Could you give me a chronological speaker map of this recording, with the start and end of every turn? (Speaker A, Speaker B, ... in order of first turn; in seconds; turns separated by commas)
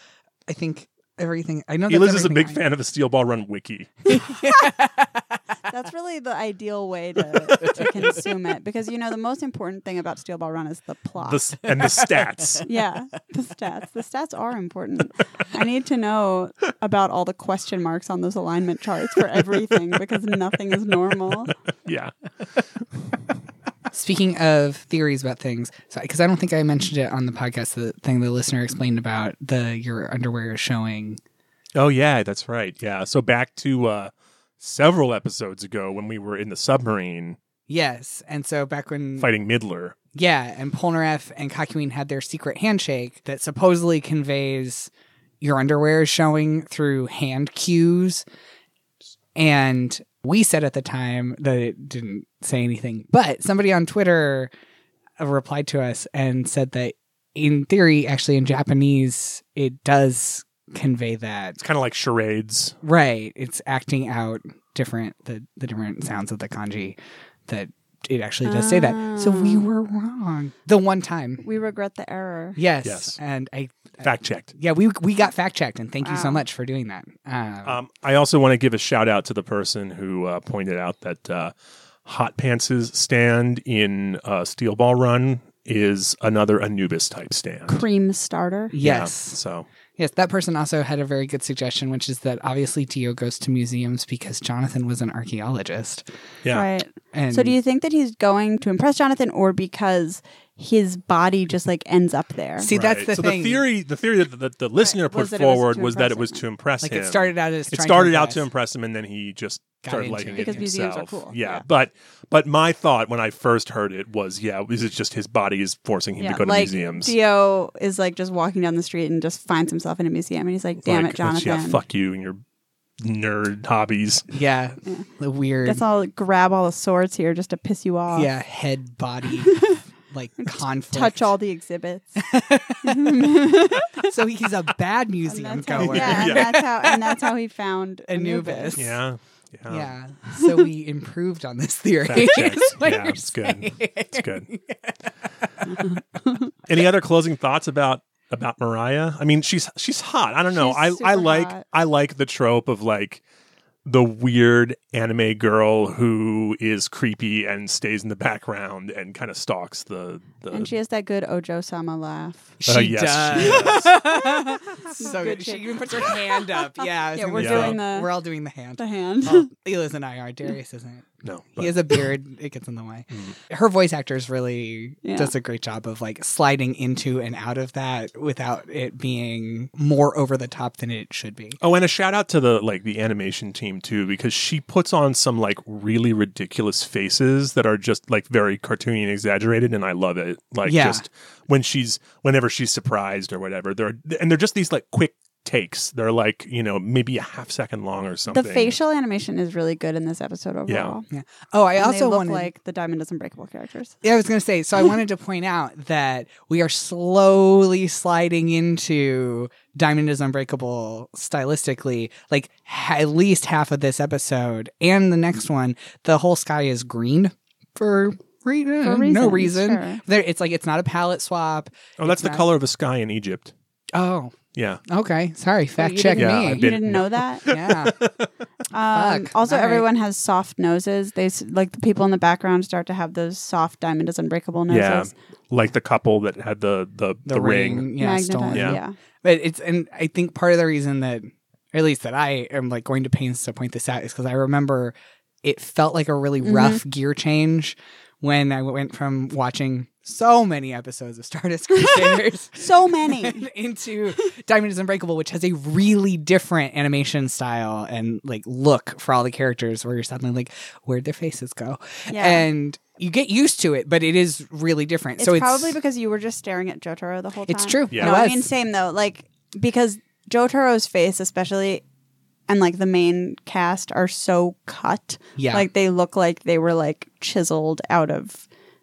Speaker A: 0.5-2.6, Speaker B: 1.9-4.2, Speaker A: 4.1-5.4, Speaker C: 5.7-11.6, Speaker A: 7.3-8.3, Speaker B: 11.3-12.7, Speaker A: 11.7-12.7, Speaker C: 12.6-21.6, Speaker B: 21.9-23.2, Speaker A: 23.9-31.2, Speaker B: 31.8-37.4, Speaker A: 37.7-39.3, Speaker B: 39.2-40.0, Speaker A: 40.1-44.9, Speaker A: 45.4-48.2, Speaker A: 49.4-54.5, Speaker A: 55.2-61.6, Speaker B: 61.6-62.8, Speaker A: 62.8-71.5, Speaker C: 68.4-69.7, Speaker C: 71.4-72.6, Speaker A: 72.6-77.8, Speaker B: 72.8-73.2, Speaker B: 74.0-74.5, Speaker C: 76.0-76.4, Speaker B: 77.7-81.5, Speaker B: 82.0-87.9, Speaker C: 87.7-88.8, Speaker A: 88.7-89.4, Speaker B: 88.8-89.7, Speaker A: 90.0-96.1, Speaker C: 96.5-102.7, Speaker A: 97.1-97.6, Speaker A: 102.6-103.6, Speaker B: 102.7-117.2, Speaker C: 104.8-106.5, Speaker A: 106.8-108.5, Speaker A: 109.8-110.7, Speaker C: 110.3-111.6, Speaker C: 116.2-121.8, Speaker B: 120.8-122.4, Speaker B: 123.0-124.3, Speaker A: 124.3-125.8, Speaker C: 125.6-128.3, Speaker A: 128.1-131.3, Speaker C: 130.4-132.3, Speaker A: 132.2-137.3, Speaker C: 132.8-134.1, Speaker C: 135.2-138.9, Speaker B: 135.8-136.7, Speaker A: 138.1-139.0, Speaker B: 138.8-139.9, Speaker A: 139.7-146.0, Speaker C: 140.3-140.6, Speaker B: 142.1-144.5, Speaker C: 145.7-146.5, Speaker B: 146.6-153.2, Speaker C: 150.5-151.6, Speaker B: 153.8-160.7, Speaker C: 160.5-162.6, Speaker A: 162.6-181.6, Speaker B: 162.7-163.9, Speaker C: 163.4-168.1, Speaker B: 167.3-167.8, Speaker C: 168.8-169.5, Speaker B: 171.2-172.0, Speaker C: 175.0-175.3, Speaker B: 181.6-198.8, Speaker A: 190.7-191.1, Speaker C: 198.3-201.1, Speaker B: 200.7-200.9, Speaker A: 201.1-202.5, Speaker C: 201.8-204.0, Speaker A: 204.0-222.4, Speaker C: 218.8-220.0, Speaker B: 222.0-223.5, Speaker A: 223.9-224.4, Speaker B: 224.6-224.8, Speaker A: 224.9-226.7, Speaker C: 225.8-227.4, Speaker B: 226.2-228.3, Speaker A: 227.5-228.1, Speaker C: 228.7-235.1, Speaker A: 228.9-229.9, Speaker B: 234.7-237.9, Speaker A: 237.3-265.8, Speaker C: 238.0-238.9, Speaker B: 238.5-238.8, Speaker C: 246.4-246.8, Speaker C: 252.6-253.5, Speaker C: 262.1-262.5, Speaker C: 265.2-271.9, Speaker A: 267.5-268.5, Speaker C: 272.5-278.5, Speaker A: 275.4-275.7